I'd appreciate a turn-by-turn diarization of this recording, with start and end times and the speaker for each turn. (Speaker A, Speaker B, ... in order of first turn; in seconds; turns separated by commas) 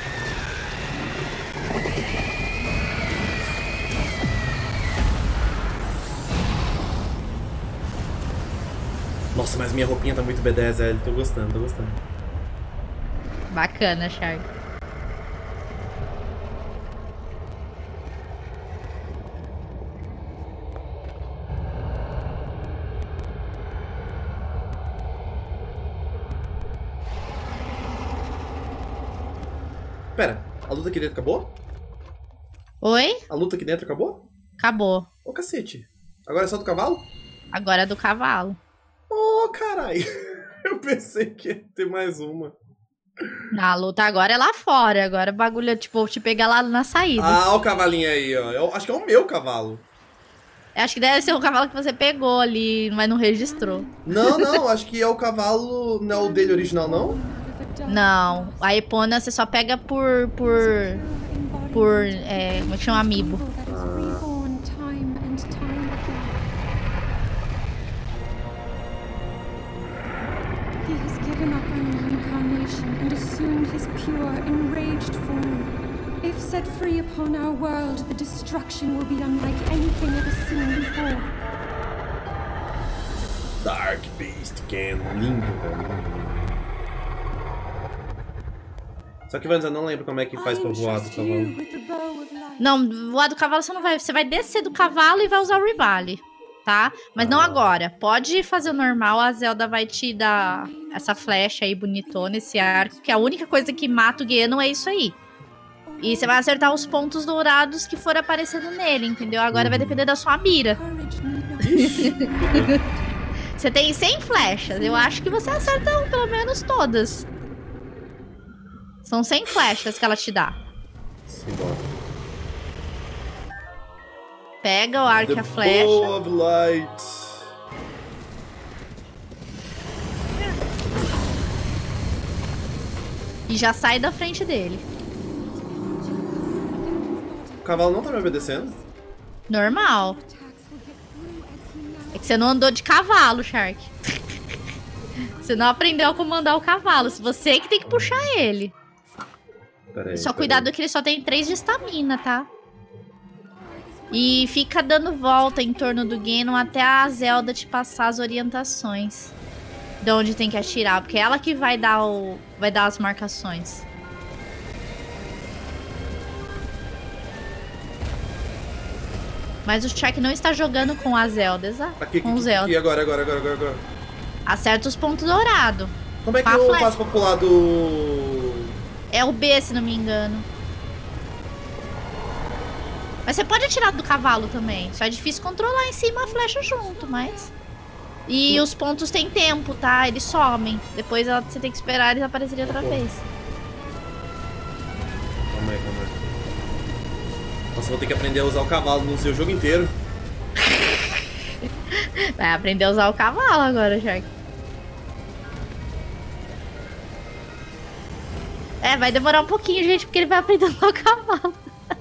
Speaker A: 9.3-12.0, Speaker B: 13.5-14.4, Speaker A: 30.1-31.6, Speaker B: 32.8-33.2, Speaker A: 33.3-34.3, Speaker B: 34.6-35.1, Speaker A: 35.2-37.1, Speaker B: 37.5-38.6, Speaker A: 39.1-42.5, Speaker A: 43.2-43.5, Speaker B: 43.5-47.4, Speaker A: 47.2-49.8, Speaker B: 50.7-54.5, Speaker C: 53.3-54.0, Speaker A: 54.1-57.2, Speaker C: 56.1-58.7, Speaker B: 57.9-61.0, Speaker C: 60.4-66.4, Speaker B: 61.7-63.4, Speaker A: 63.6-64.3, Speaker C: 70.8-81.3, Speaker A: 83.6-86.6, Speaker A: 89.3-91.5, Speaker C: 90.3-92.9, Speaker B: 92.6-105.2, Speaker C: 93.8-96.2, Speaker A: 97.2-97.7, Speaker C: 100.3-101.4, Speaker C: 101.9-104.6, Speaker C: 105.8-106.9, Speaker B: 106.0-110.8, Speaker A: 109.5-110.0, Speaker C: 110.6-113.0, Speaker A: 111.6-112.8, Speaker B: 111.7-112.1, Speaker B: 113.6-117.2, Speaker C: 114.3-116.1, Speaker B: 119.0-120.6, Speaker A: 121.3-121.9, Speaker B: 124.6-126.2, Speaker A: 125.2-127.5, Speaker B: 133.5-134.8, Speaker C: 135.3-138.9, Speaker A: 137.6-138.8, Speaker B: 139.5-140.2, Speaker C: 139.6-142.5, Speaker B: 142.1-143.9, Speaker C: 145.3-147.6, Speaker B: 145.4-148.7, Speaker A: 147.8-148.3, Speaker A: 149.9-150.7, Speaker B: 150.1-152.5, Speaker C: 153.5-157.7, Speaker B: 154.1-159.3, Speaker B: 160.0-163.8, Speaker C: 160.6-162.3, Speaker B: 169.6-172.7, Speaker A: 172.0-173.8, Speaker B: 174.4-176.9, Speaker A: 176.2-178.7, Speaker B: 179.1-180.4, Speaker B: 183.2-187.5, Speaker C: 186.2-187.5, Speaker B: 188.3-193.2, Speaker A: 192.6-193.1, Speaker A: 195.5-196.2, Speaker A: 197.7-200.0, Speaker B: 200.6-201.2, Speaker B: 201.9-204.3, Speaker B: 208.8-211.6